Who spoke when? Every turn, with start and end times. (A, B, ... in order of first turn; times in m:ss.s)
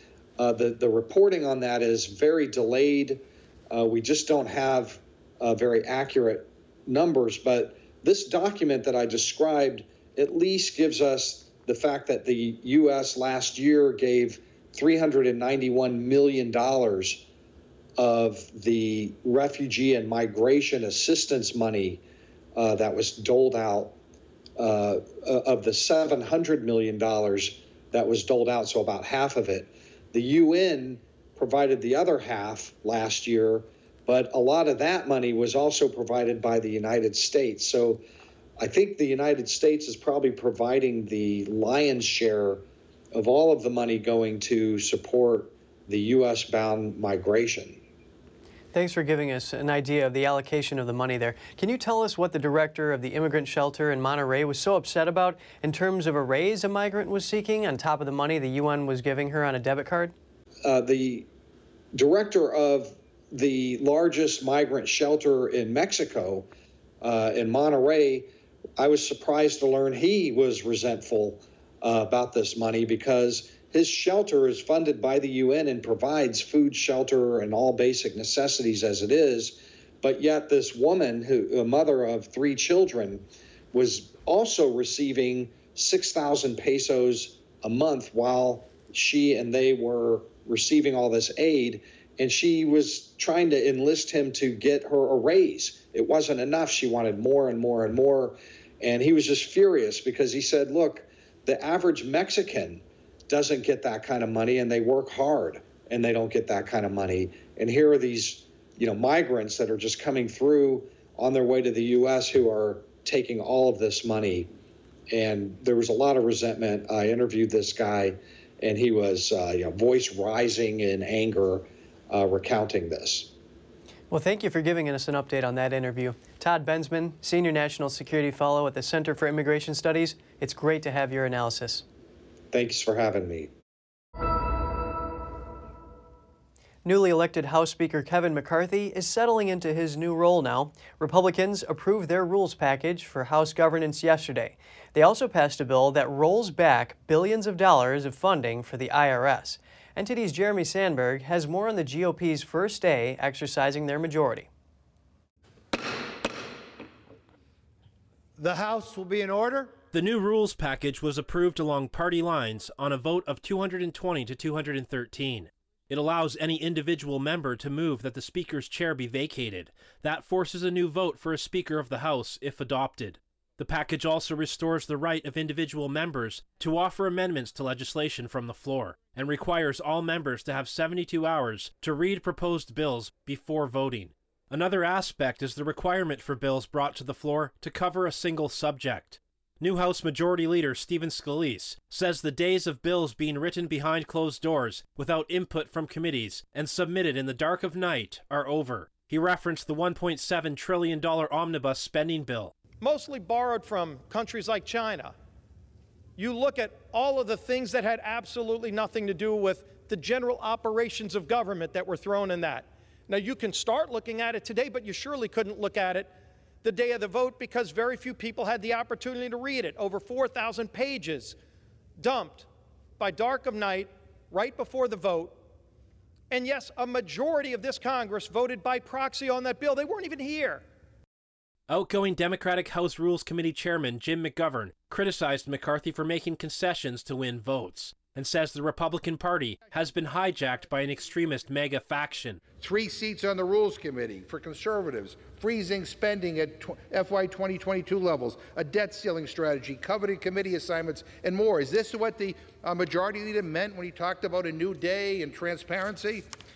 0:00.4-0:17.3 A
0:18.0-0:22.0 A
0:22.6-0:24.0 A
0:24.6-0:38.0 A
0:38.6-0:47.8 A
0:48.7-1:00.1 B
1:00.6-1:01.3 A
1:01.9-1:06.5 A
1:07.0-1:54.5 A
1:55.1-2:03.3 A
2:04.1-2:11.8 B
2:12.5-2:13.5 A
2:16.8-2:34.5 B
2:38.4-2:39.8 C
2:39.9-3:22.5 D
3:22.8-3:25.2 C
3:26.2-3:41.4 C
3:42.0-3:42.5 C
3:43.0-3:45.4 C
3:46.3-3:50.6 C
3:51.7-4:02.4 D
4:02.5-4:16.3 E